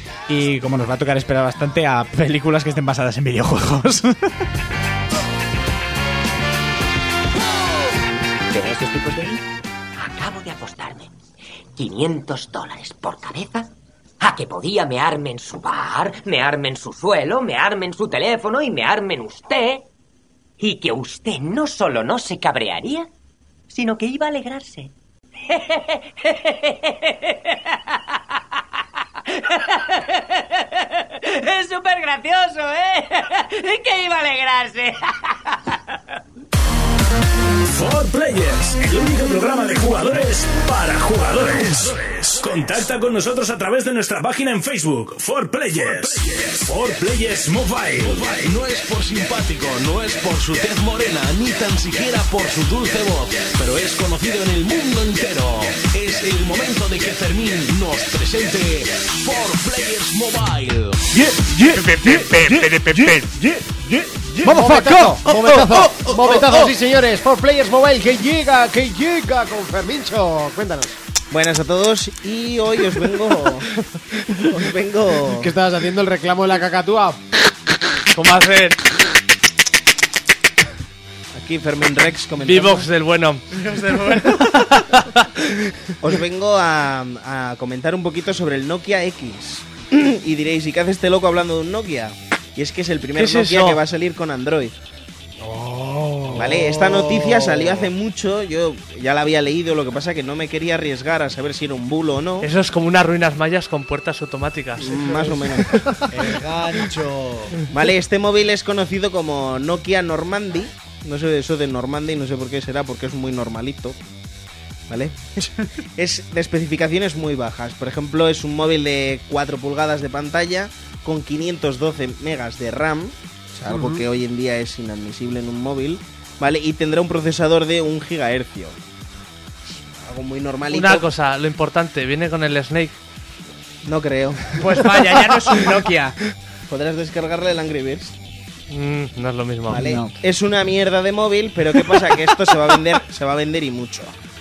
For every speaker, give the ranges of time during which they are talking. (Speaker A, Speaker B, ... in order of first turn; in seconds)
Speaker A: 0.3-4.5, 61.8-63.2, 64.4-66.6, 83.5-84.7, 106.1-107.5, 134.6-136.2, 139.7-140.1
Speaker B: 8.5-9.4, 10.0-11.1, 11.8-19.9, 20.6-23.1, 23.7-24.9, 25.5-28.0, 29.3-36.0
Speaker C: 37.6-48.5
Speaker D: 45.9-46.2, 48.0-64.4
Speaker E: 64.4-71.0, 75.3-77.2, 95.4-97.8, 105.1-106.9, 123.7-124.0
Speaker F: 71.3-75.5, 81.3-82.9, 86.0-94.8, 96.3-102.5, 104.8-105.9, 107.7-114.0, 114.9-128.8, 130.0-131.1, 133.8-134.6, 136.7-138.2, 139.7-144.1
Speaker G: 78.1-78.9, 82.4-85.5, 93.2-93.8, 102.4-105.0, 130.7-133.0, 138.7-139.8